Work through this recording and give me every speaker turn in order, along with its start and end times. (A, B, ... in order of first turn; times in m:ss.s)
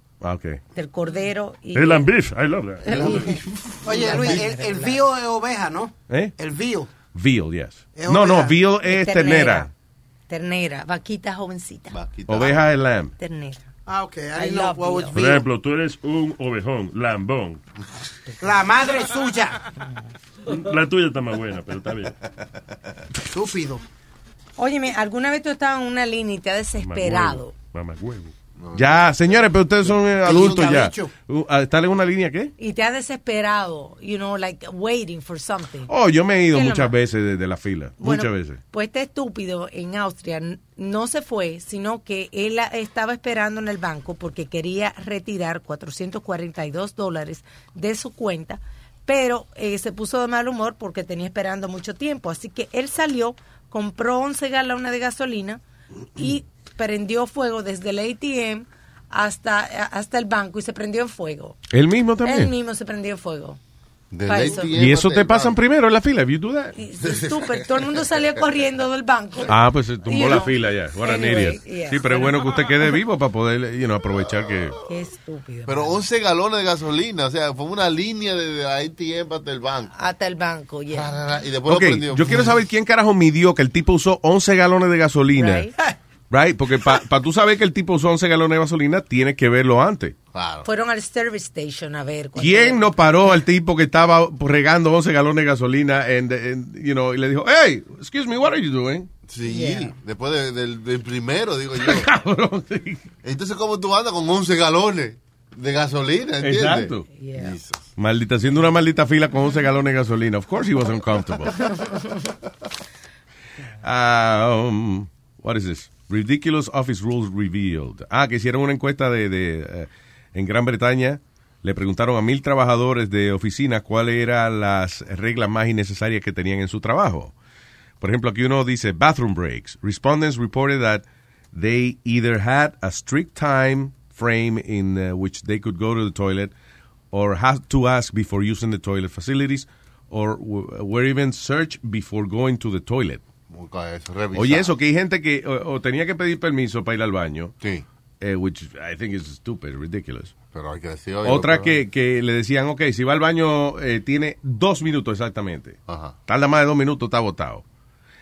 0:00.2-0:00.6 A
0:00.7-0:02.1 B
0:01.7-0:03.3 C
0:02.8-0:05.0 B
0:02.9-0:04.2 D
0:03.8-0:06.9 E
0:06.1-0:06.3 A
0:07.1-0:09.7 A
0:07.9-0:08.5 E
0:08.8-0:09.7 B
0:10.3-0:12.0 B
0:11.9-0:12.6 D
0:12.3-0:13.1 A
0:13.2-0:13.6 B
0:13.9-0:15.4 E
0:14.4-0:15.2 B
0:15.1-0:17.6 C
0:18.4-0:19.6 E
0:20.5-0:22.1 C
0:23.3-0:23.8 E
0:24.6-0:27.5 B
0:26.8-0:28.3 C
0:28.6-0:29.9 D
0:28.7-0:32.5 A
0:30.2-0:31.1 E
0:32.6-0:35.9 B
0:35.9-0:38.6 A
0:36.5-0:36.9 B
0:38.0-0:55.6 B
0:56.2-1:01.6 B
1:01.7-1:02.5 A
1:02.2-1:03.6 B
1:04.1-1:05.6 D
1:04.2-1:04.7 B
1:04.5-1:06.8 A
1:06.8-1:12.6 B
1:07.0-1:08.2 D
1:09.5-1:14.8 A
1:14.1-1:14.8 D
1:14.8-1:16.0 B
1:15.6-1:19.9 D
1:19.9-1:21.1 B
1:20.9-1:22.6 D
1:21.7-1:25.7 A
1:25.4-1:25.7 B
1:26.3-1:30.1 A
1:30.3-1:30.7 D
1:30.6-1:32.9 B
1:32.4-1:39.1 A
1:39.2-1:42.1 D
1:39.5-1:39.9 B
1:41.8-1:43.0 A
1:43.2-1:47.9 D
1:46.4-1:47.1 A
1:47.1-1:47.6 B
1:48.0-1:51.6 A
1:53.8-2:07.3 A
2:08.0-2:16.5 A
2:17.1-2:23.2 A
2:23.5-2:24.7 D
2:24.3-2:27.5 A
2:28.2-2:30.3 A
2:30.5-2:31.8 D
2:31.2-2:37.6 A
2:35.9-2:36.2 D